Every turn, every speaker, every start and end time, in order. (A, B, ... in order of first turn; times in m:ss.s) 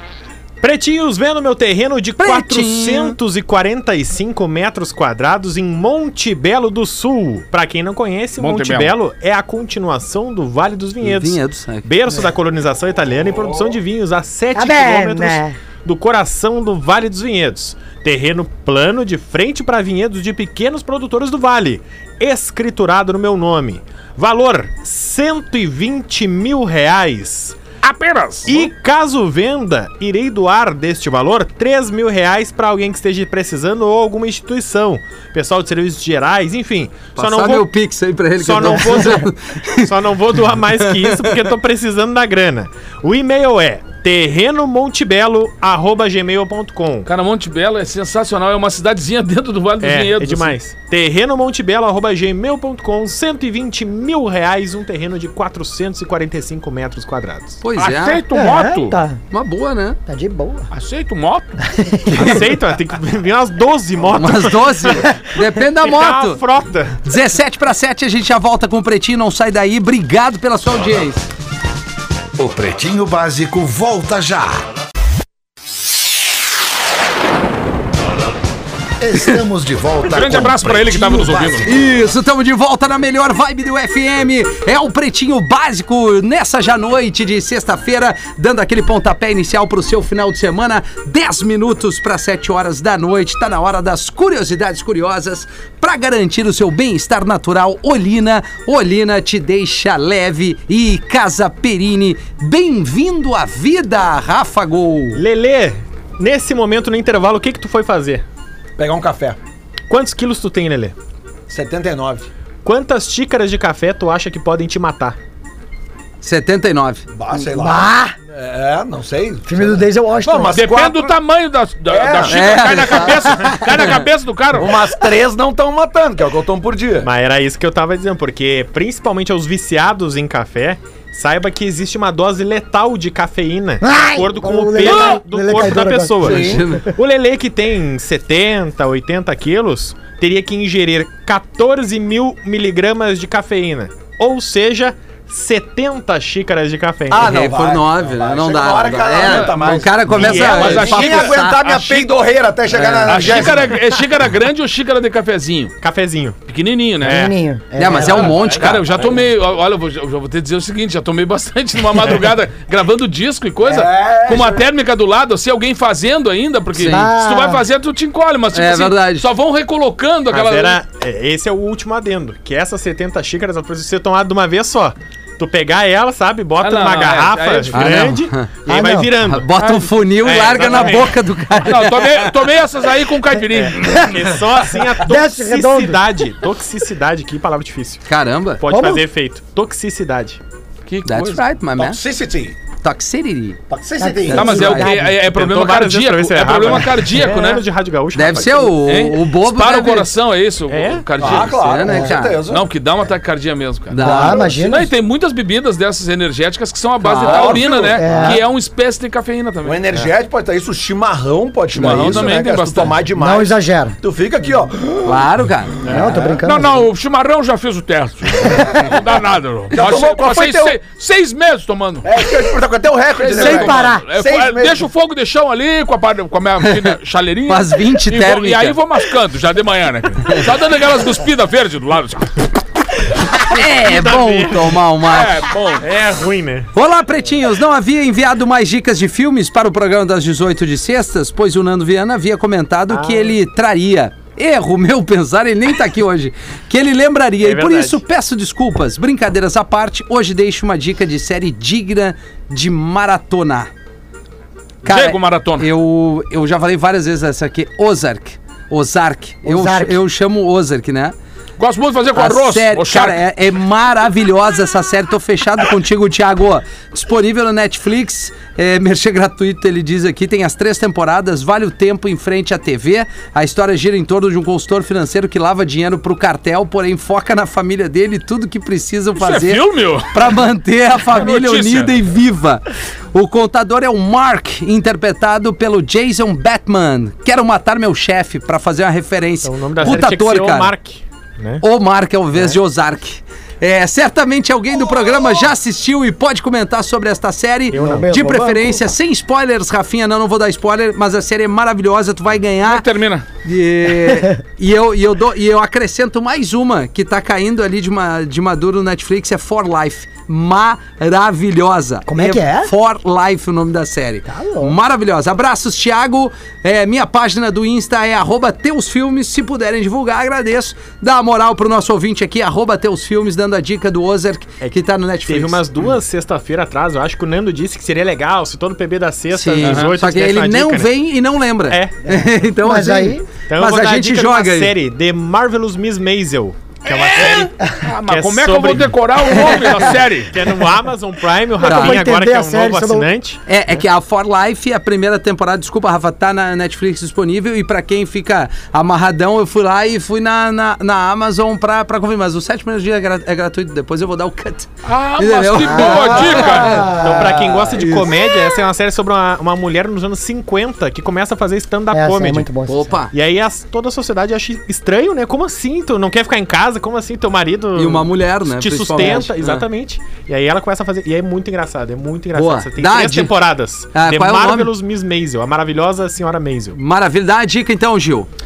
0:00.6-0:27.6 A
0:02.2-0:03.2 B
0:08.4-0:09.0 C
0:11.0-0:11.9 B
0:14.5-0:15.6 D
0:27.8-0:28.7 C
0:28.4-0:37.7 A
0:37.2-0:39.9 B
0:38.4-0:39.3 A
0:39.8-0:47.1 A
0:40.7-0:41.4 B
0:47.1-0:50.6 C
0:49.8-0:57.6 A
0:57.6-0:58.2 B
0:57.8-0:59.0 C
0:58.3-0:59.2 D
0:59.3-1:00.0 B
1:00.1-1:00.7 D
1:00.7-1:01.6 C
1:01.7-1:02.5 D
1:02.1-1:07.0 A
1:04.1-1:06.4 B
1:07.0-1:11.3 B
1:12.4-1:14.7 E
1:19.0-1:21.8 E
1:20.1-1:21.7 C
1:21.6-1:45.2 B
1:45.2-1:48.2 A
1:48.8-1:49.4 F
1:49.9-1:51.0 A
1:51.5-1:52.3 F
1:52.6-1:55.2 A
1:56.2-1:57.0 B
1:57.1-2:01.2 F
1:57.3-1:58.2 D
1:59.5-2:00.6 D
2:00.5-2:04.7 C
2:01.9-2:02.6 F
2:02.3-2:03.8 B
2:04.5-2:07.1 F
2:07.0-2:27.3 A
2:13.8-2:16.9 D
2:14.8-2:15.2 C
2:16.2-2:16.6 F
2:16.2-2:16.9 B
2:27.1-2:33.8 F
2:27.2-2:31.9 B
2:29.2-2:29.6 C
2:30.2-2:31.1 A
2:30.2-2:31.3 C
2:31.7-2:32.0 A
2:32.7-2:33.5 B
2:33.0-2:35.8 C
2:33.7-2:34.0 A
2:35.8-2:36.4 A
2:36.5-2:37.3 C
2:37.0-2:37.3 A
2:37.1-2:38.4 D
2:37.8-2:38.9 B
2:38.4-2:50.8 C
2:43.6-2:44.7 F
2:46.8-2:47.1 B
2:46.8-2:47.6 D
2:48.5-2:49.3 B
2:50.3-3:01.2 A
2:56.6-2:58.0 C
2:57.7-2:58.5 B
2:58.7-2:59.2 D
2:59.2-3:02.4 B
2:59.6-2:59.9 C
3:01.6-3:04.1 C
3:03.6-3:08.0 A
3:03.8-3:04.3 D
3:05.0-3:06.1 D
3:08.1-3:08.6 B
3:08.6-3:10.4 A
3:08.7-3:09.1 D
3:10.9-3:11.4 C
3:11.0-3:12.0 B
3:11.8-3:12.6 F
3:12.8-3:13.6 B
3:13.7-3:14.6 F
3:14.0-3:15.2 D
3:14.3-3:15.0 B
3:14.3-3:17.6 C
3:15.2-3:18.8 A
3:18.1-3:20.1 B
3:18.9-3:21.6 C
3:20.7-3:21.0 A
3:21.2-3:22.7 F
3:21.5-3:22.4 B
3:21.9-3:22.1 D
3:22.5-3:29.8 C
3:23.9-3:24.4 B
3:24.0-3:24.9 D
3:24.0-3:24.4 F
3:27.0-3:27.6 B
3:27.2-3:28.2 F
3:28.0-3:28.4 D
3:28.1-3:28.4 B
3:29.6-3:35.3 F
3:31.8-3:33.0 C
3:33.2-3:34.0 D
3:35.0-3:35.8 B
3:35.9-3:36.4 F
3:35.9-3:36.8 D
3:35.9-3:36.2 A
3:36.4-3:42.1 C
3:38.5-3:38.9 F
3:39.7-3:40.8 F
3:42.0-3:44.8 F
3:43.2-3:44.0 D
3:43.3-3:52.4 C
3:46.6-3:47.0 B
3:47.5-3:48.8 B
3:53.4-3:55.5 B
3:53.6-3:54.8 A
3:55.1-3:55.9 C
3:55.8-3:56.7 A
3:56.7-4:13.7 B
4:02.9-4:03.4 A
4:07.4-4:08.0 A
4:14.8-4:21.2 B
4:14.8-4:15.7 C
4:19.4-4:20.0 D
4:21.6-4:23.2 C
4:22.2-4:50.7 B
4:39.2-4:40.3 C
4:41.1-4:42.0 C
4:49.4-4:51.6 A
4:51.6-5:02.9 B
4:57.7-4:58.1 A
4:57.7-4:58.8 D
5:02.6-5:03.2 C
5:03.4-5:25.7 B
5:12.1-5:12.7 D
5:14.3-5:14.8 D
5:24.6-5:30.9 A
5:29.3-5:34.7 B
5:29.6-5:29.9 C
5:31.7-5:32.0 A
5:32.6-5:33.3 D
5:33.5-5:37.6 A
5:36.9-5:40.4 C
5:38.1-5:43.4 A
5:41.6-5:43.1 D
5:41.6-5:42.0 B
5:43.5-5:58.4 B
5:54.8-5:56.9 C
5:55.6-5:57.4 D
5:56.9-6:02.5 A
6:01.9-6:03.0 D
6:02.7-6:03.1 B
6:03.1-6:16.8 A
6:07.8-6:09.6 B
6:12.4-6:13.4 B
6:13.9-6:14.7 B
6:16.8-6:18.3 B